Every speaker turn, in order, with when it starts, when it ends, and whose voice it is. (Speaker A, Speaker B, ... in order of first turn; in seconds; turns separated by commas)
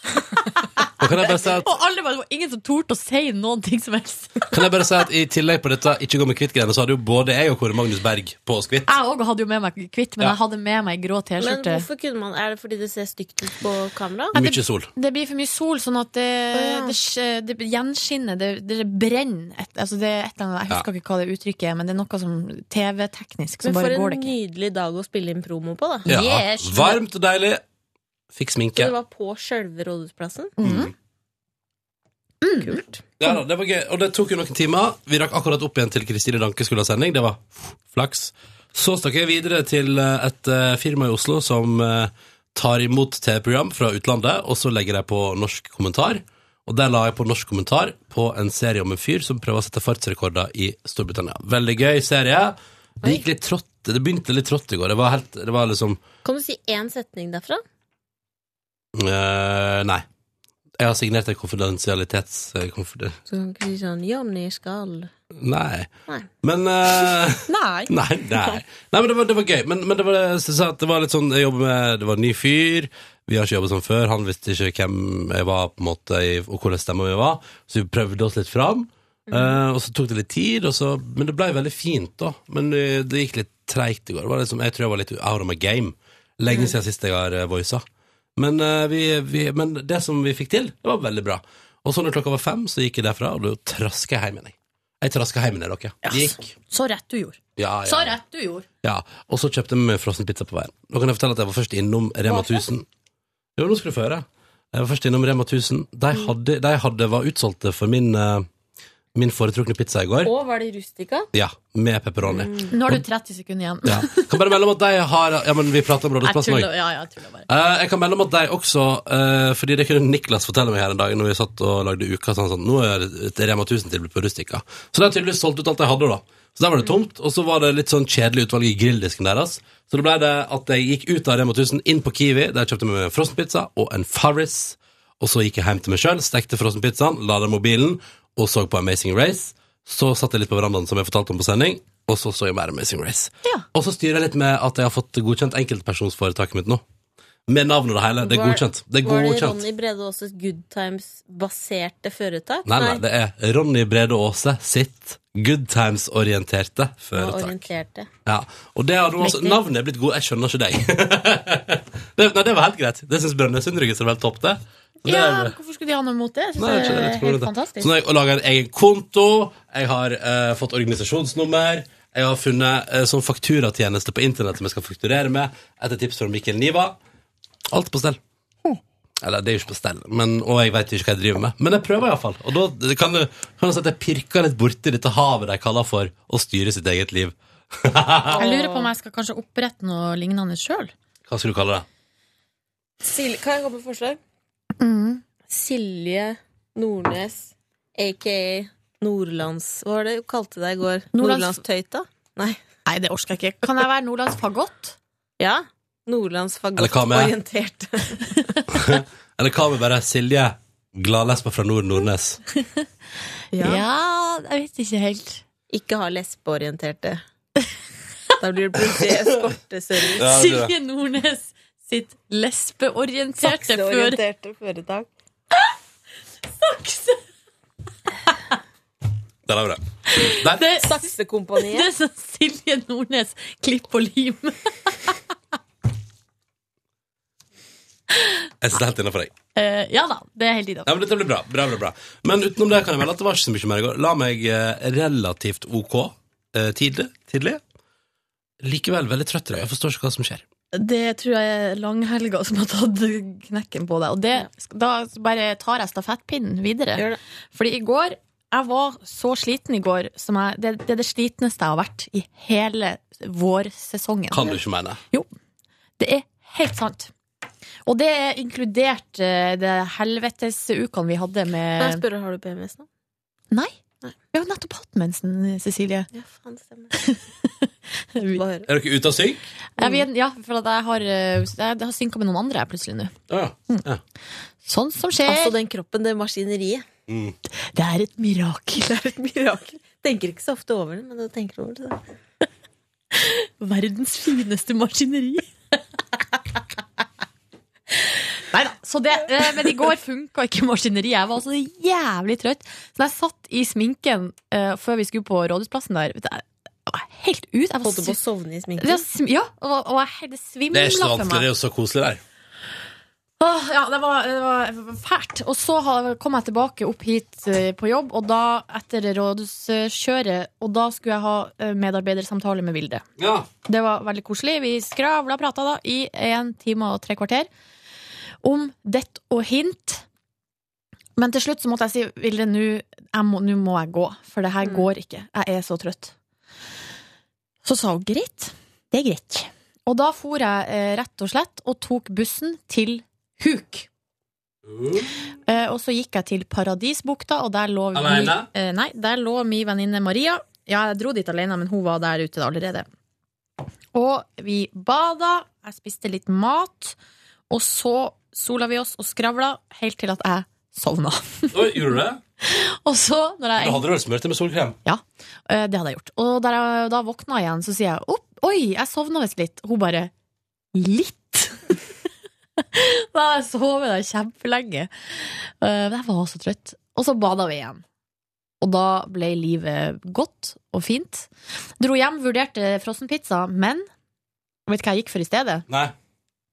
Speaker A: 0.3-4.5, Speaker B: 1.0-1.7, Speaker B: 4.5-8.9, Speaker A: 8.9-11.8, Speaker C: 11.4-14.4, Speaker B: 14.3-14.9, Speaker A: 14.3-24.3, Speaker C: 16.5-16.9, Speaker C: 23.6-26.1, Speaker A: 26.1-27.0, Speaker B: 26.1-27.6, Speaker B: 28.3-28.9, Speaker C: 28.7-30.6, Speaker A: 30.6-30.9, Speaker B: 30.6-30.9, Speaker A: 32.4-32.8, Speaker C: 32.6-33.1, Speaker B: 33.2-56.0, Speaker C: 56.2-57.6, Speaker B: 58.9-60.0, Speaker B: 60.8-63.2, Speaker C: 63.3-65.1, Speaker B: 65.3-65.9, Speaker B: 66.4-87.8, Speaker A: 67.5-67.9, Speaker C: 79.3-79.6, Speaker C: 86.5-86.8, Speaker B: 88.3-96.5, Speaker A: 96.0-98.6, Speaker B: 97.6-98.2, Speaker B: 98.8-102.8, Speaker C: 102.2-102.6, Speaker B: 103.5-108.5, Speaker B: 109.1-110.3, Speaker C: 110.2-111.3, Speaker B: 111.3-113.0, Speaker C: 112.2-112.7, Speaker A: 112.7-114.3, Speaker B: 113.8-116.7, Speaker A: 116.2-117.5, Speaker B: 117.5-146.8, Speaker B: 147.5-149.6, Speaker C: 148.2-153.0, Speaker B: 152.7-157.6, Speaker C: 157.1-158.1, Speaker B: 158.2-165.6, Speaker C: 159.2-159.6, Speaker A: 165.0-167.9, Speaker B: 166.6-177.0, Speaker B: 177.7-178.2, Speaker B: 179.2-188.4, Speaker C: 188.2-188.9, Speaker A: 188.4-190.9, Speaker B: 191.3-191.8, Speaker C: 193.0-194.2, Speaker A: 194.8-195.2, Speaker C: 195.5-202.6, Speaker A: 201.1-201.6, Speaker A: 202.8-204.9, Speaker C: 205.4-208.6, Speaker B: 206.8-207.3, Speaker B: 208.7-212.4, Speaker C: 213.5-213.8, Speaker A: 213.6-215.4, Speaker C: 215.7-217.2, Speaker C: 218.4-220.3, Speaker B: 220.2-220.7, Speaker A: 220.2-224.2, Speaker C: 223.4-225.1, Speaker A: 226.6-227.2, Speaker B: 229.4-230.6, Speaker A: 230.1-235.1, Speaker C: 230.8-231.9, Speaker B: 238.6-239.3, Speaker A: 239.6-240.9, Speaker B: 240.8-247.6, Speaker B: 248.6-250.4, Speaker A: 250.7-264.6, Speaker C: 256.9-257.2, Speaker B: 264.3-265.0, Speaker A: 266.0-267.1, Speaker A: 267.9-272.0, Speaker C: 271.8-272.9, Speaker A: 274.3-276.1, Speaker C: 276.1-276.9, Speaker A: 276.9-278.4, Speaker C: 278.3-278.7, Speaker B: 278.7-279.4, Speaker A: 279.8-283.1, Speaker C: 279.8-280.1, Speaker B: 283.3-284.0, Speaker A: 284.6-285.5, Speaker C: 285.2-286.8, Speaker B: 287.1-287.4, Speaker A: 287.7-288.9, Speaker C: 288.8-292.0, Speaker A: 293.1-295.5, Speaker A: 298.5-308.2, Speaker C: 307.8-309.0, Speaker A: 308.8-311.5, Speaker B: 310.7-312.2, Speaker A: 313.4-323.0, Speaker B: 323.2-323.5, Speaker A: 323.6-327.5, Speaker A: 328.4-330.0, Speaker A: 331.2-336.1, Speaker A: 337.6-343.9, Speaker B: 344.6-345.1, Speaker A: 345.4-352.9, Speaker B: 347.9-348.5, Speaker A: 353.9-357.0, Speaker A: 357.5-361.8, Speaker B: 361.5-362.2, Speaker A: 362.4-363.8, Speaker B: 363.6-364.8, Speaker A: 364.8-370.1, Speaker A: 370.7-371.8, Speaker A: 372.6-377.8, Speaker A: 378.6-383.9, Speaker A: 384.7-385.6, Speaker B: 385.7-385.9